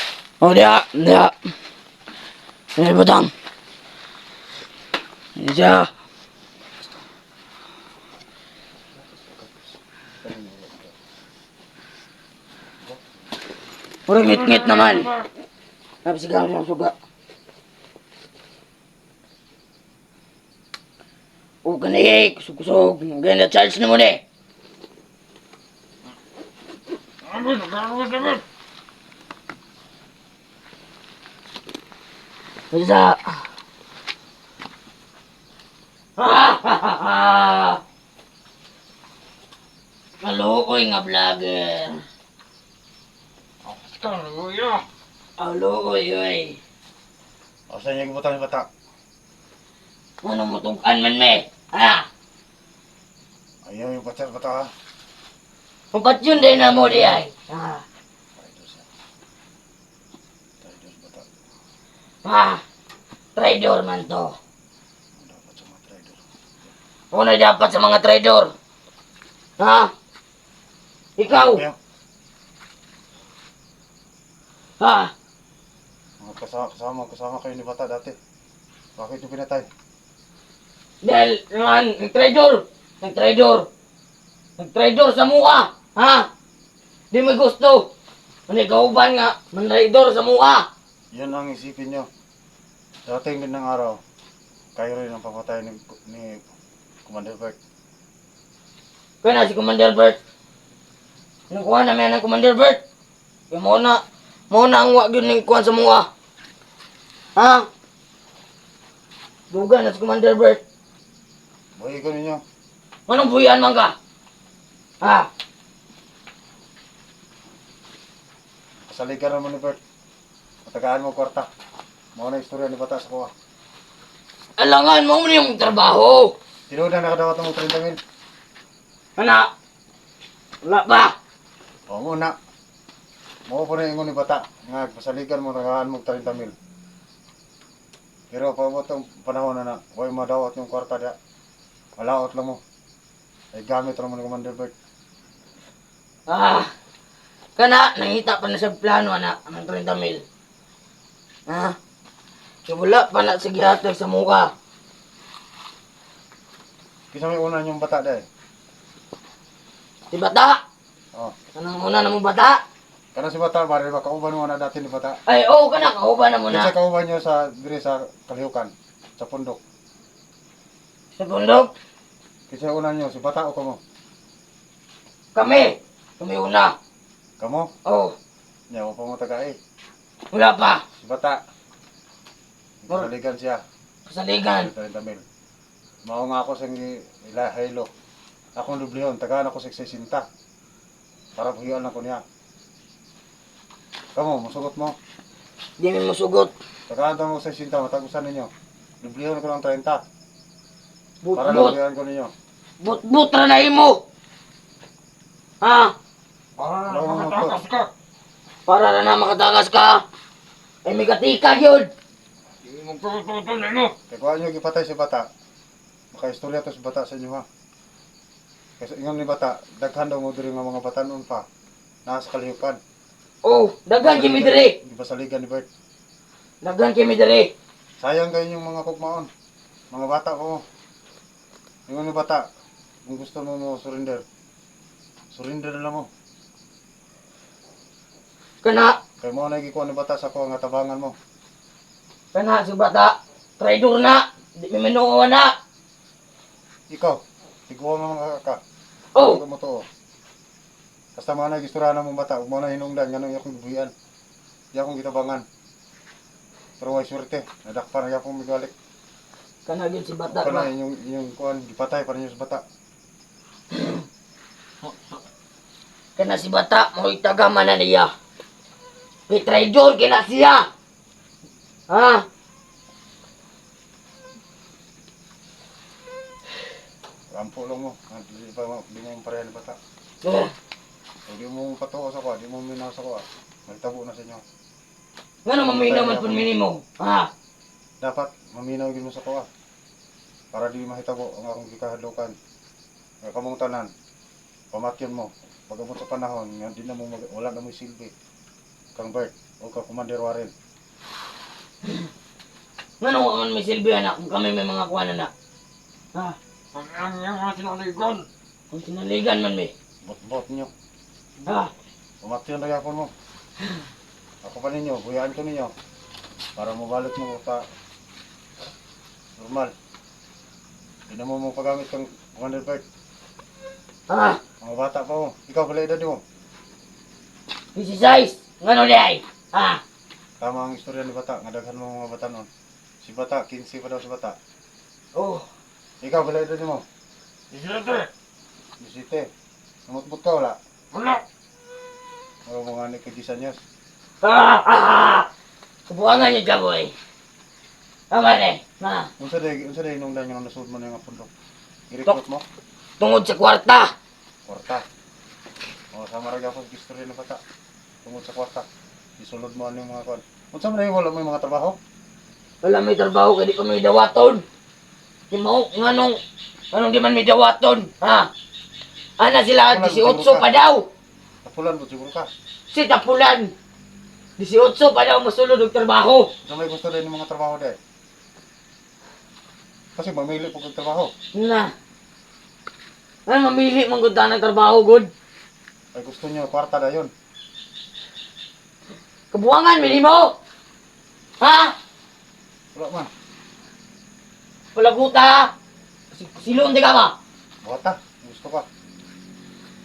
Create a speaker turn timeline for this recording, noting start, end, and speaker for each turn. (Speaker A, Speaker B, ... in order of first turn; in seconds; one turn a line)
Speaker A: 0.4-1.4
Speaker A: 2.8-3.3
Speaker A: 5.4-5.9
Speaker B: 9.1-10.9
Speaker A: 14.1-15.1
Speaker A: 16.1-16.9
Speaker A: 21.6-24.2
Speaker C: 27.2-28.4
Speaker A: 32.7-33.4
Speaker A: 36.2-37.8
Speaker A: 40.2-42.0
Speaker C: 43.6-44.9
Speaker A: 45.4-46.6
Speaker B: 47.7-48.7
Speaker A: 50.2-52.1
Speaker B: 53.6-54.7
Speaker A: 55.9-57.8
Speaker B: 56.3-57.2
Speaker B: 58.4-58.9
Speaker B: 60.6-61.3
Speaker A: 62.2-62.6
Speaker A: 63.4-64.4
Speaker B: 65.2-66.2
Speaker A: 67.1-68.5
Speaker A: 69.6-69.9
Speaker A: 71.2-71.6
Speaker B: 71.3-71.8
Speaker A: 74.8-75.1
Speaker B: 76.2-78.2
Speaker B: 79.0-79.7
Speaker A: 81.0-83.7
Speaker A: 84.6-86.3
Speaker A: 87.1-87.9
Speaker A: 88.5-90.7
Speaker B: 91.1-92.1
Speaker B: 93.1-94.0
Speaker B: 94.8-96.4
Speaker B: 97.1-97.6
Speaker A: 99.2-100.2
Speaker A: 101.5-102.8
Speaker A: 103.5-106.1
Speaker A: 107.4-107.7
Speaker A: 109.5-110.6
Speaker B: 111.8-112.4
Speaker A: 113.1-113.9
Speaker A: 115.0-115.3
Speaker B: 118.9-119.8
Speaker B: 120.7-121.5
Speaker B: 122.2-123.3
Speaker A: 124.6-126.3
Speaker B: 126.7-128.0
Speaker A: 129.2-129.5
Speaker A: 130.6-131.2
Speaker B: 131.9-132.3
Speaker B: 133.5-136.6
Speaker B: 138.3-141.2
Speaker B: 142.0-142.6
Speaker B: 143.5-144.7
Speaker A: 146.3-146.7
Speaker A: 147.6-150.2
Speaker A: 151.5-151.8
Speaker A: 152.7-154.5
Speaker B: 157.1-158.2
Speaker A: 160.1-160.6
Speaker A: 161.6-162.6
Speaker B: 163.2-165.2
Speaker A: 165.3-166.7
Speaker B: 166.5-169.6
Speaker A: 171.2-171.7
Speaker B: 172.5-173.8
Speaker A: 175.3-176.8
Speaker B: 177.4-177.7
Speaker A: 177.8-178.2
Speaker B: 178.7-179.6
Speaker A: 180.3-180.8
Speaker B: 181.0-181.4
Speaker B: 182.8-183.6
Speaker A: 184.1-184.7
Speaker B: 184.6-185.2
Speaker B: 186.1-187.9
Speaker B: 188.6-190.3
Speaker B: 191.4-192.2
Speaker B: 194.2-195.0
Speaker A: 195.8-196.5
Speaker B: 196.9-200.0
Speaker A: 201.2-201.8
Speaker B: 201.3-202.3
Speaker A: 202.8-204.0
Speaker A: 205.6-205.9
Speaker C: 206.6-207.9
Speaker B: 206.8-207.6
Speaker A: 208.7-210.0
Speaker A: 210.8-211.9
Speaker C: 212.6-213.9
Speaker B: 214.1-215.3
Speaker B: 216.1-217.5
Speaker B: 218.8-221.4
Speaker B: 222.1-222.8
Speaker A: 223.4-224.8
Speaker B: 223.9-225.7
Speaker A: 226.6-227.5
Speaker B: 228.0-229.3
Speaker B: 229.9-230.6
Speaker B: 231.9-232.4
Speaker B: 233.1-234.2
Speaker B: 235.3-236.1
Speaker A: 238.6-239.0
Speaker B: 239.2-241.2
Speaker A: 242.3-245.6
Speaker B: 246.9-248.6
Speaker A: 249.2-249.4
Speaker B: 249.2-249.9
Speaker B: 251.2-253.9
Speaker B: 254.7-255.4
Speaker B: 256.8-258.7
Speaker A: 259.7-260.7
Speaker B: 260.3-262.6
Speaker A: 263.7-264.0
Speaker A: 266.2-268.1
Speaker A: 269.3-270.7
Speaker A: 271.9-272.2
Speaker B: 277.3-279.8
Speaker A: 280.2-280.5
Speaker B: 281.3-284.4
Speaker A: 285.4-287.3
Speaker B: 285.6-286.5
Speaker B: 288.0-289.5
Speaker B: 290.5-292.4
Speaker B: 293.2-293.9
Speaker B: 294.7-298.1
Speaker B: 299.0-300.5
Speaker A: 303.0-305.3
Speaker C: 306.7-308.3
Speaker A: 308.7-309.7
Speaker B: 310.1-310.7
Speaker A: 311.4-311.7
Speaker B: 312.2-313.1
Speaker B: 314.4-315.7
Speaker B: 316.6-317.6
Speaker B: 319.4-319.7
Speaker B: 321.1-322.8
Speaker A: 324.1-324.4
Speaker B: 324.6-326.2
Speaker A: 327.8-329.8
Speaker B: 330.4-332.5
Speaker B: 333.0-334.4
Speaker A: 335.1-335.5
Speaker B: 336.0-336.9
Speaker C: 337.5-338.1
Speaker B: 338.8-339.3
Speaker B: 339.9-340.6
Speaker B: 342.5-343.6
Speaker A: 344.2-345.3
Speaker A: 345.9-346.9
Speaker A: 348.1-349.1
Speaker B: 349.2-351.3
Speaker B: 351.9-352.4
Speaker A: 353.0-353.9
Speaker B: 354.5-354.9
Speaker B: 355.9-357.4
Speaker B: 358.0-358.7
Speaker B: 359.2-361.8
Speaker A: 362.6-364.4
Speaker A: 365.3-366.2
Speaker A: 366.7-368.3
Speaker A: 369.2-370.9
Speaker B: 369.7-370.5
Speaker B: 371.4-372.3
Speaker A: 372.7-373.5
Speaker A: 374.4-376.3
Speaker B: 376.4-377.8
Speaker B: 380.0-381.1
Speaker A: 381.3-381.7
Speaker A: 383.3-385.1
Speaker B: 385.9-387.1
Speaker A: 389.3-390.4
Speaker A: 391.4-391.8
Speaker B: 392.7-393.1
Speaker A: 394.8-395.5
Speaker A: 396.1-397.1
Speaker B: 397.6-398.7